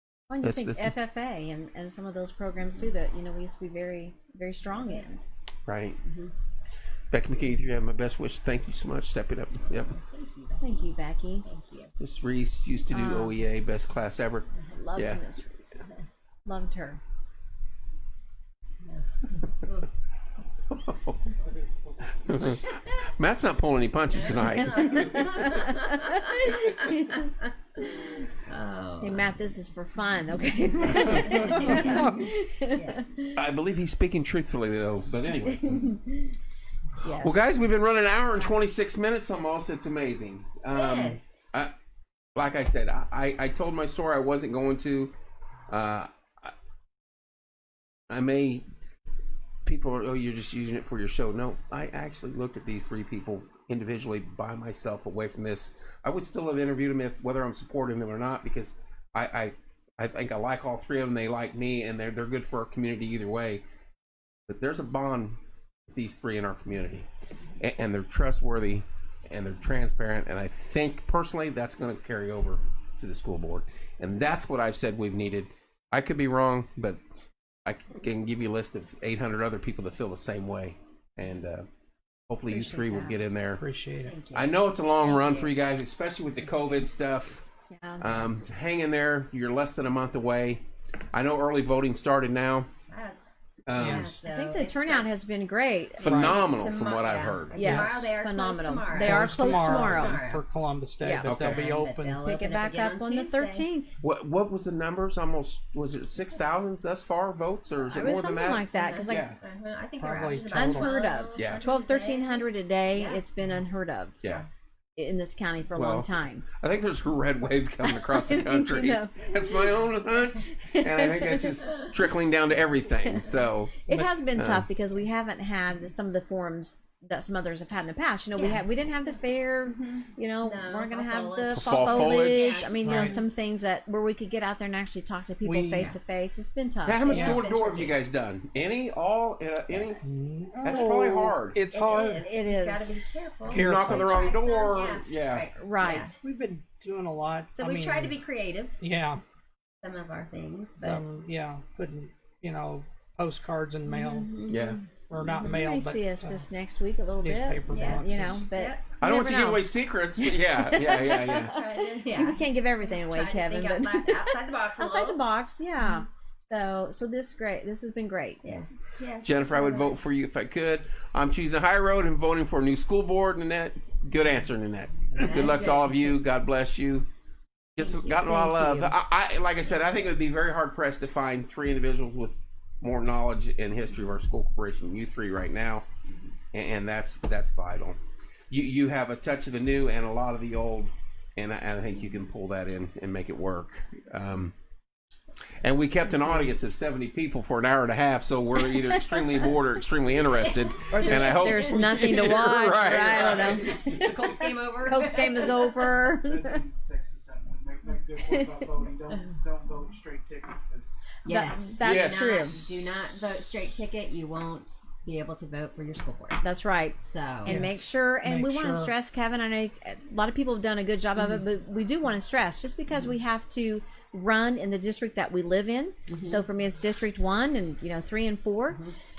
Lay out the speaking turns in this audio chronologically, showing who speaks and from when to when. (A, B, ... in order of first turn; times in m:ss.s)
0:00.3-0:05.2 A
0:00.4-0:00.9 B
0:05.7-0:06.0 B
0:06.1-0:06.3 C
0:07.1-0:09.9 B
0:09.6-0:10.9 C
0:10.6-0:11.4 A
0:11.4-0:11.9 C
0:12.0-0:15.2 B
0:12.9-0:13.4 A
0:14.7-0:15.8 A
0:15.8-0:16.0 C
0:16.5-0:17.0 A
0:18.9-0:19.8 C
0:20.7-0:21.2 B
0:22.2-0:25.1 B
0:24.1-0:29.4 C
0:25.1-0:27.2 A
0:29.0-0:33.3 A
0:30.9-0:32.2 C
0:32.7-0:33.1 C
0:33.4-0:35.9 B
0:35.7-0:36.4 A
0:37.0-0:37.4 A
0:37.2-0:41.7 B
0:40.7-0:41.2 C
0:42.4-0:45.1 B
0:45.7-0:46.5 B
0:48.1-0:48.7 B
0:49.6-1:03.6 B
1:04.5-1:07.1 B
1:07.6-1:17.0 B
1:17.6-1:21.7 B
1:22.3-1:23.6 B
1:22.5-1:23.2 A
1:23.6-1:24.1 D
1:24.0-1:25.5 C
1:24.3-1:27.4 B
1:27.7-1:28.2 A
1:28.0-1:32.7 B
1:32.9-1:33.3 C
1:33.7-1:34.2 B
1:33.8-1:34.1 D
1:33.8-1:35.3 C
1:34.2-1:36.8 A
1:36.0-1:37.9 B
1:36.0-1:36.5 D
1:36.5-1:40.4 C
1:37.6-1:40.2 A
1:37.6-1:38.1 D
1:39.0-1:42.2 D
1:41.0-1:41.3 A
1:41.2-1:41.8 B
1:41.4-1:43.7 C
1:42.2-1:44.0 A
1:44.0-1:49.4 B
1:47.9-1:49.3 A
1:48.7-1:53.2 C
1:50.0-1:50.9 D
1:50.4-1:54.2 A
1:51.4-1:51.6 B
1:55.0-1:56.5 A
1:55.8-2:04.7 B
1:57.9-1:59.8 A
2:00.6-2:01.6 A
2:03.9-2:17.1 A
2:08.4-2:08.6 C
2:09.7-2:13.3 C
2:11.5-2:12.6 B
2:12.8-2:13.2 D
2:15.4-2:15.9 D
2:16.9-2:20.0 B
2:17.1-2:18.0 C
2:17.1-2:17.4 D
2:20.0-2:22.2 D
2:20.6-2:21.6 B
2:21.7-2:26.1 C
2:22.2-2:23.0 A
2:23.5-2:24.2 D
2:23.5-2:25.5 B
2:25.6-2:26.2 A
2:26.2-2:28.2 D
2:27.5-2:28.8 C
2:28.8-2:29.2 D
2:29.8-2:31.0 C
2:30.8-2:34.3 D
2:33.9-2:34.6 C
2:34.2-2:34.8 A
2:34.5-2:34.8 B
2:35.1-2:36.5 D
2:35.3-2:35.6 C
2:35.5-2:41.5 A
2:37.2-2:38.5 D
2:37.7-2:39.0 C
2:39.0-2:41.6 B
2:40.9-2:45.2 C
2:42.1-2:48.4 A
2:48.4-2:50.0 C
2:49.2-2:57.1 B
2:55.2-2:56.2 C
2:57.8-3:05.9 B
2:57.8-2:58.2 C
2:58.2-2:59.0 A
2:59.8-3:00.0 C
3:06.5-3:08.0 B
3:08.5-3:14.6 B
3:15.6-3:23.6 B
3:20.5-3:25.7 C
3:20.9-3:26.6 A
3:26.2-3:31.0 E
3:28.2-3:28.7 A
3:31.2-3:36.4 C
3:31.3-3:32.6 A
3:31.8-3:32.3 B
3:36.4-3:48.8 A
3:37.0-3:37.6 C
3:37.4-3:38.9 D
3:41.2-3:41.4 C
3:46.1-3:46.4 C